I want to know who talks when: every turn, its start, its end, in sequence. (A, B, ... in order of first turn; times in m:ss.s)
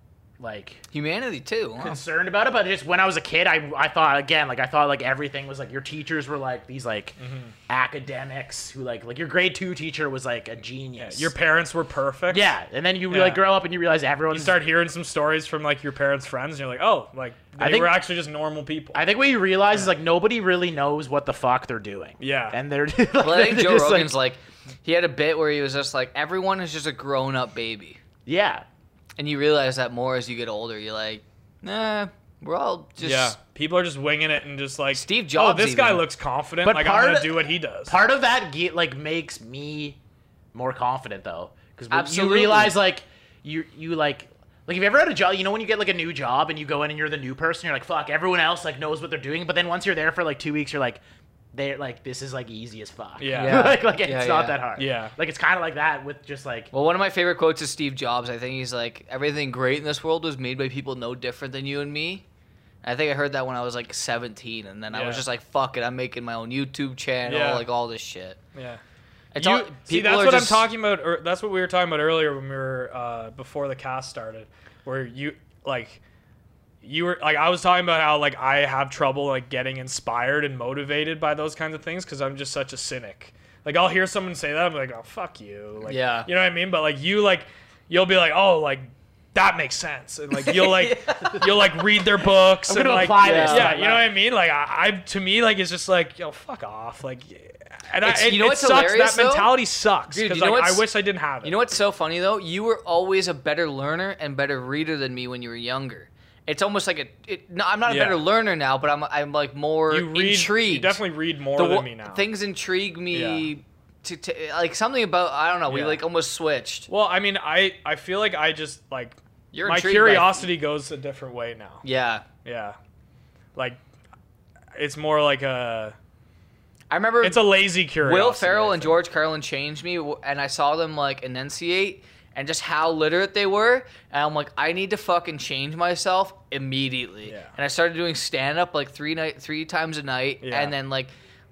0:00.4-0:00.8 A
0:00.9-0:01.9 B
0:01.8-0:07.2 A
0:07.2-0:07.5 C
0:07.7-0:11.3 A
0:11.0-0:12.5 C
0:12.3-0:14.6 A
0:13.1-0:13.4 C
0:14.3-0:19.0 C
0:17.6-0:18.0 A
0:18.9-0:24.2 A
0:22.2-0:22.6 C
0:23.2-0:28.0 B
0:28.3-0:28.7 A
0:29.2-0:33.4 B
0:33.0-0:38.0 C
0:34.9-0:36.0 B
0:36.6-0:40.0 A
0:40.5-0:51.0 A
0:41.9-0:42.8 B
0:51.5-0:56.7 A
0:53.2-0:53.8 C
0:53.3-0:54.6 B
0:54.8-0:55.1 C
0:56.7-1:02.2 B
1:02.8-1:08.4 B
1:04.9-1:05.2 C
1:07.3-1:07.7 C
1:08.6-1:08.8 C
1:09.3-1:10.7 B
1:09.4-1:16.0 C
1:16.8-1:41.6 C
1:25.8-1:26.3 B
1:30.3-1:31.5 B
1:32.7-1:34.1 A
1:33.2-1:33.7 B
1:38.0-1:39.5 B
1:40.1-1:40.9 B
1:41.4-1:51.0 B
1:47.9-1:48.2 C
1:49.9-1:52.3 C
1:51.6-1:56.9 B
1:53.1-1:53.5 C
1:55.7-1:56.0 C
1:56.9-2:01.8 C
1:59.5-2:00.5 B
2:01.8-2:02.2 B
2:02.4-2:02.8 C
2:04.8-2:06.0 C
2:06.9-2:07.5 B
2:07.2-2:09.0 C
2:08.0-2:21.1 B
2:17.3-2:17.5 C
2:20.4-2:20.7 C